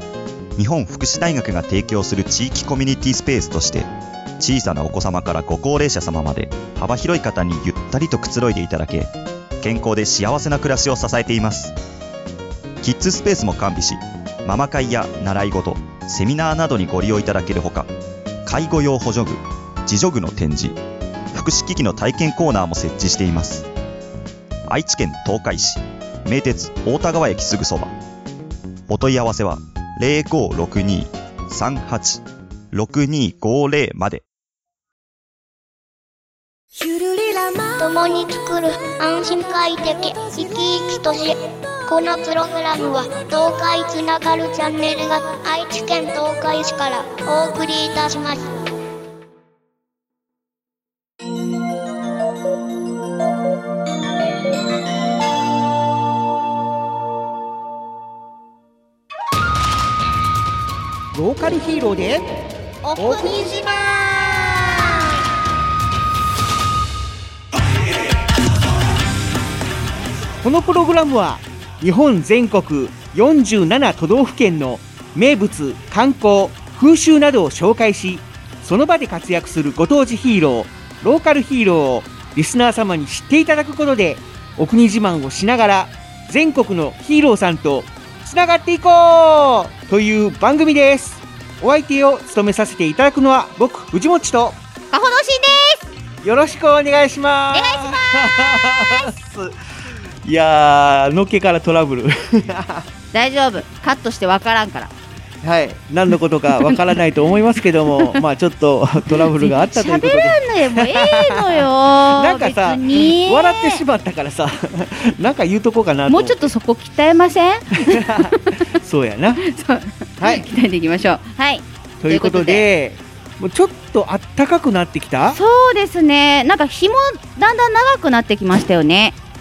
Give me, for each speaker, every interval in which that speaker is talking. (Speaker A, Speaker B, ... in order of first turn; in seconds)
Speaker A: 0.6-11.7, 12.8-17.9, 18.4-20.8, 21.3-23.7, 24.7-27.9, 28.9-34.2
Speaker B: 36.8-48.5
Speaker C: 61.1-62.3, 62.9-63.8, 70.4-94.6, 96.2-99.5, 100.2-102.8, 105.4-116.5, 117.9-119.4, 120.2-120.5, 122.0-125.4
Speaker D: 94.9-95.8, 97.5-99.0, 103.1-104.9, 106.5-106.8, 109.1-113.8, 116.1-118.6, 119.5-122.7, 125.3-129.2